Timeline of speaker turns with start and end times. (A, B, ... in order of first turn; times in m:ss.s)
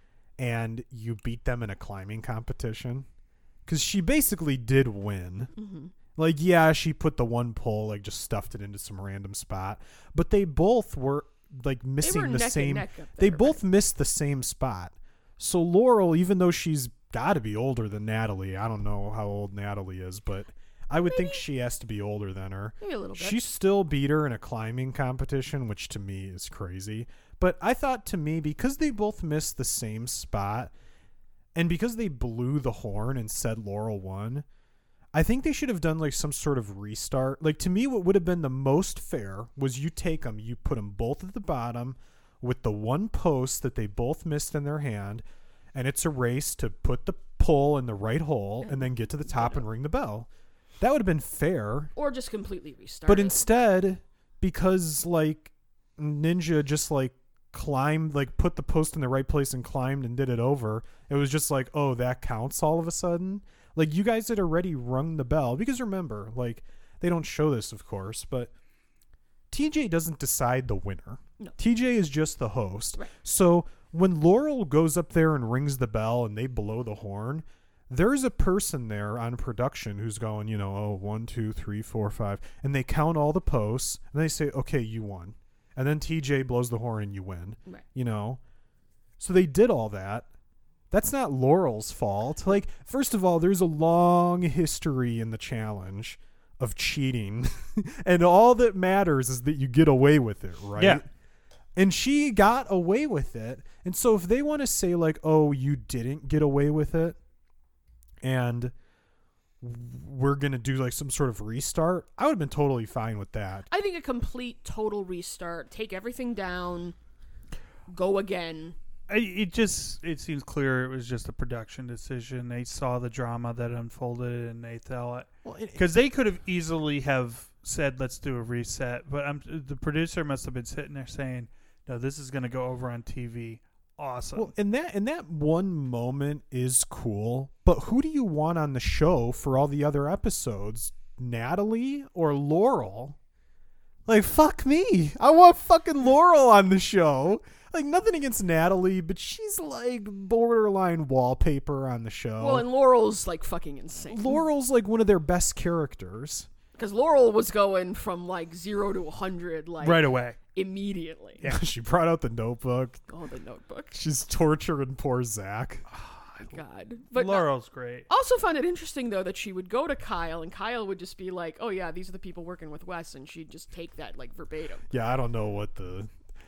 0:00.4-0:03.1 A
0:03.6-0:05.5 A
0:05.5-0:05.9 B
0:06.1-0:30.7 A
0:12.0-0:13.6 B
0:21.0-0:21.4 B
0:22.8-0:23.4 B
0:31.5-0:34.4 A
0:35.1-0:50.3 A
0:48.6-0:49.6 B
0:50.8-0:51.9 A
0:51.9-0:53.4 B
0:53.1-1:08.5 A
1:09.5-1:28.4 A
1:29.2-1:30.3 A
1:30.9-1:41.1 A
1:41.7-1:47.2 A
1:48.2-1:48.7 A
1:49.6-1:53.7 A
1:53.7-1:57.0 B
1:57.9-1:58.8 B
1:59.1-2:14.5 C
2:05.4-2:05.8 A
2:14.3-2:23.2 A
2:24.0-2:32.7 A
2:32.4-2:34.4 B
2:34.1-2:36.5 A
2:36.7-2:41.4 B
2:39.8-2:40.4 C
2:41.4-2:43.0 A
2:43.1-2:44.0 B
2:43.9-2:45.8 A
2:45.9-2:46.6 C
2:46.4-2:47.5 B
2:47.1-2:48.1 C
2:48.1-2:54.9 B
2:54.9-2:56.1 A